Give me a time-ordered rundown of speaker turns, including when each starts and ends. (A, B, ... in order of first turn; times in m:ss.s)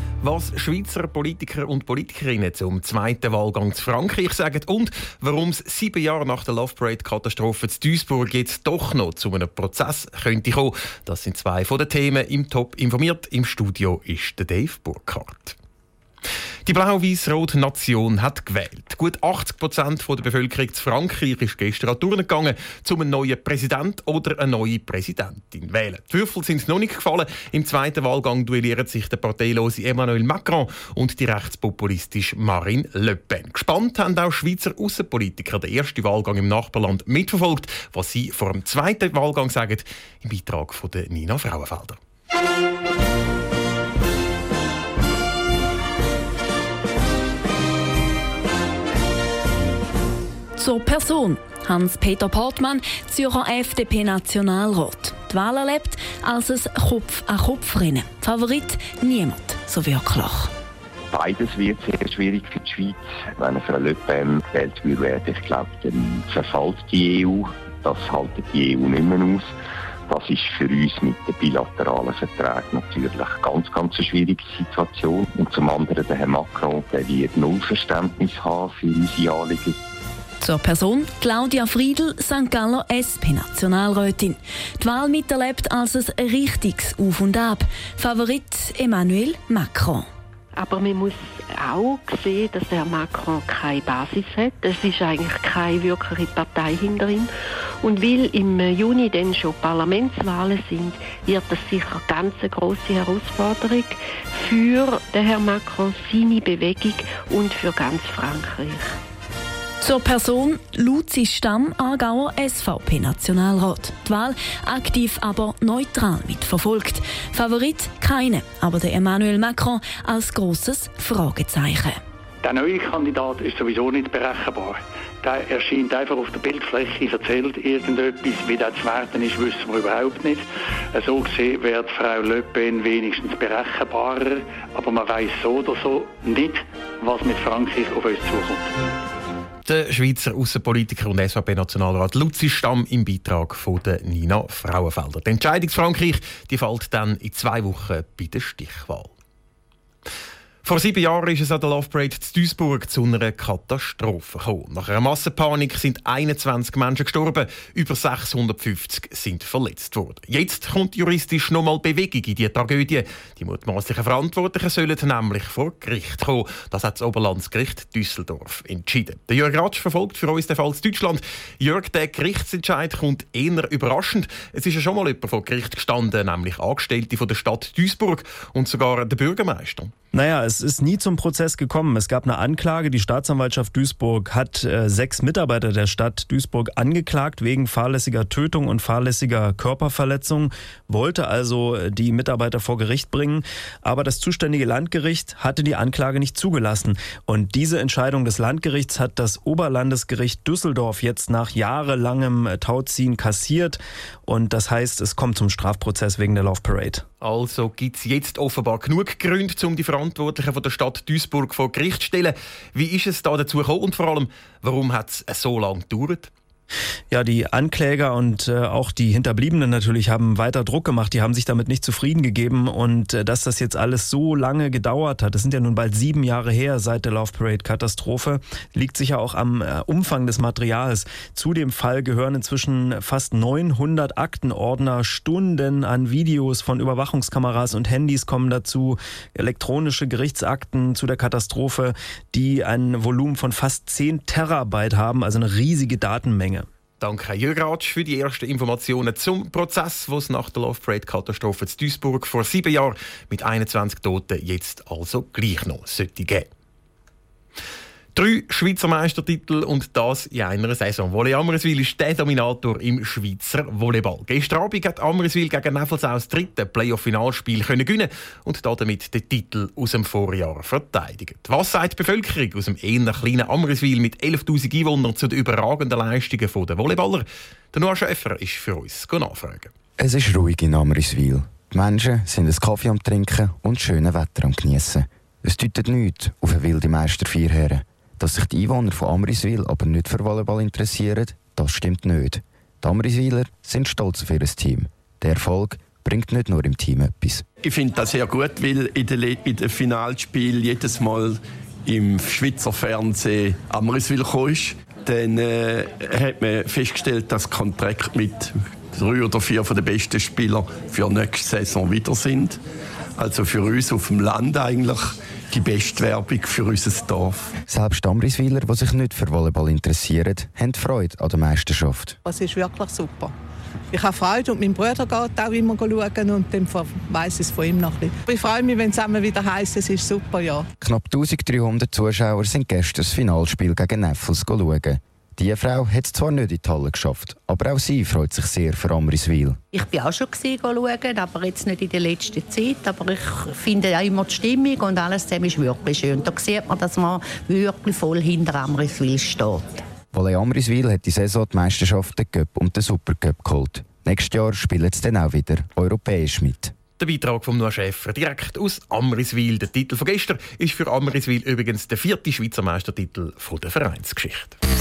0:00.2-0:15.6 A
0:16.7-0:42.0 A
0:50.6-1:00.5 B
1:01.1-1:09.5 C
1:10.1-1:19.8 C
1:20.4-1:30.1 B
1:30.5-1:37.3 D
1:37.8-1:48.9 D
1:49.8-2:02.0 B
2:02.4-2:18.7 E
2:19.7-2:29.1 A
2:30.6-2:59.9 A
3:00.1-3:27.0 F
3:27.2-3:36.3 A
3:37.1-4:06.7 F
4:07.0-4:16.5 A
4:18.2-4:39.7 A
4:40.0-4:57.4 G
4:57.6-5:12.6 H
5:13.2-5:17.5 H
5:17.7-5:22.2 G
5:22.2-5:23.3 I
5:23.9-5:30.7 I
5:30.8-5:39.6 G
5:39.7-5:49.8 J
5:50.1-5:56.7 G
5:57.0-6:04.6 A